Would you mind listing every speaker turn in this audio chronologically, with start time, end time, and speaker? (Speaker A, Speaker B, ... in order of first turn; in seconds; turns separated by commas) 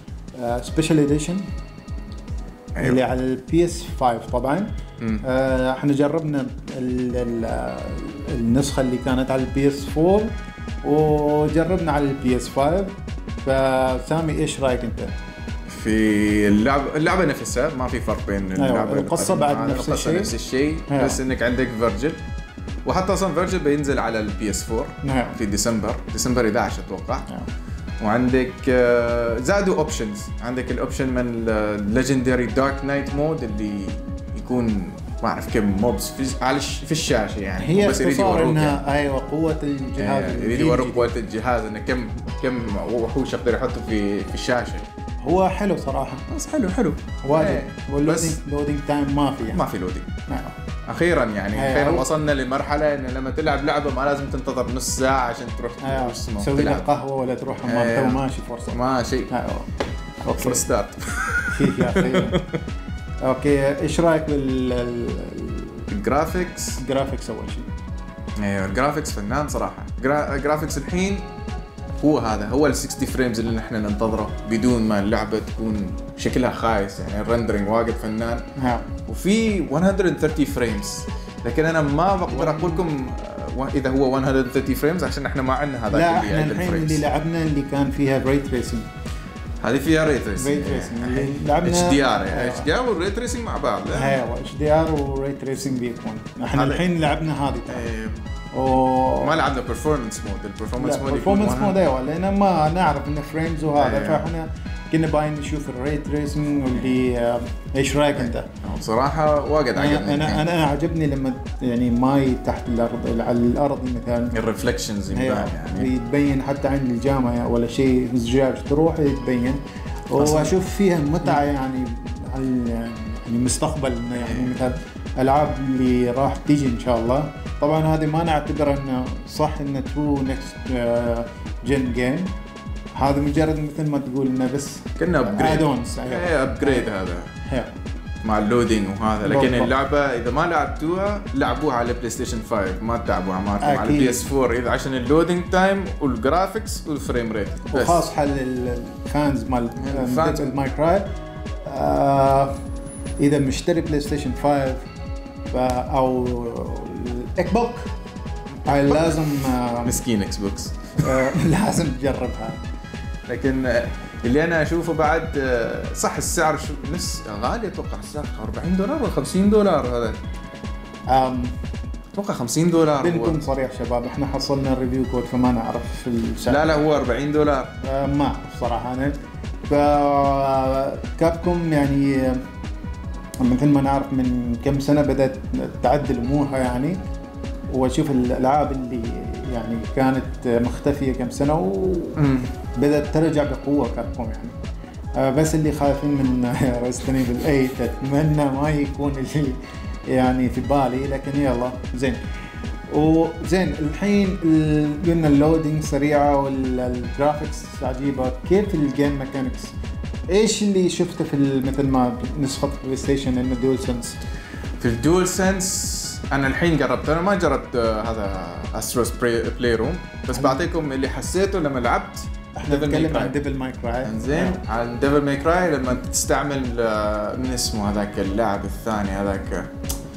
Speaker A: 0.3-1.4, Speaker B: 2.8-3.0, Speaker A: 2.8-10.3, Speaker A: 10.8-15.1, Speaker B: 15.7-22.2, Speaker A: 18.6-20.3, Speaker A: 20.9-21.2, Speaker B: 22.8-27.3, Speaker A: 25.0-25.4, Speaker B: 28.0-38.8, Speaker A: 37.6-41.1, Speaker B: 40.0-44.8, Speaker A: 45.2-46.3, Speaker B: 46.3-48.4, Speaker A: 47.2-49.6, Speaker B: 49.5-50.1, Speaker A: 50.3-50.5, Speaker B: 50.9-56.9, Speaker A: 51.5-52.0, Speaker A: 55.8-58.8, Speaker B: 57.6-59.3, Speaker A: 59.3-59.7, Speaker A: 60.2-60.6, Speaker B: 60.4-62.6, Speaker A: 61.5-62.4, Speaker A: 63.2-65.9, Speaker B: 65.9-66.8, Speaker A: 66.8-67.7, Speaker B: 68.4-71.3, Speaker B: 72.0-78.4, Speaker A: 78.6-78.9, Speaker B: 79.1-87.0, Speaker A: 82.3-82.8, Speaker A: 85.9-88.9, Speaker B: 89.6-94.2, Speaker A: 90.4-92.7, Speaker A: 93.9-97.9, Speaker B: 96.5-96.8, Speaker B: 97.7-98.2, Speaker A: 98.5-99.4, Speaker B: 99.2-101.7, Speaker A: 100.8-108.5, Speaker B: 103.7-104.2, Speaker B: 108.6-110.5, Speaker A: 109.7-114.3, Speaker B: 114.3-115.9, Speaker A: 115.1-132.3, Speaker B: 120.2-120.5, Speaker B: 124.2-124.6, Speaker A: 133.0-136.9, Speaker B: 135.0-137.3, Speaker A: 137.4-137.7, Speaker B: 138.2-148.0, Speaker A: 139.2-139.7, Speaker A: 143.6-144.3, Speaker A: 147.7-151.1, Speaker B: 149.8-150.4, Speaker A: 151.6-152.5, Speaker A: 153.2-154.8, Speaker A: 155.5-157.9, Speaker A: 158.6-160.0, Speaker B: 159.8-161.3, Speaker A: 161.0-162.6, Speaker B: 163.3-170.2, Speaker A: 171.1-171.6, Speaker B: 172.1-173.4, Speaker A: 172.9-176.8, Speaker B: 176.5-177.7, Speaker A: 177.8-179.2, Speaker A: 179.7-182.4, Speaker A: 183.4-187.0, Speaker A: 187.7-192.2, Speaker B: 192.2-192.5, Speaker A: 192.7-194.5, Speaker A: 195.2-202.2, Speaker A: 202.9-209.7, Speaker A: 210.3-214.2, Speaker B: 214.8-223.3, Speaker A: 220.3-220.6, Speaker A: 222.6-224.6, Speaker B: 224.0-229.7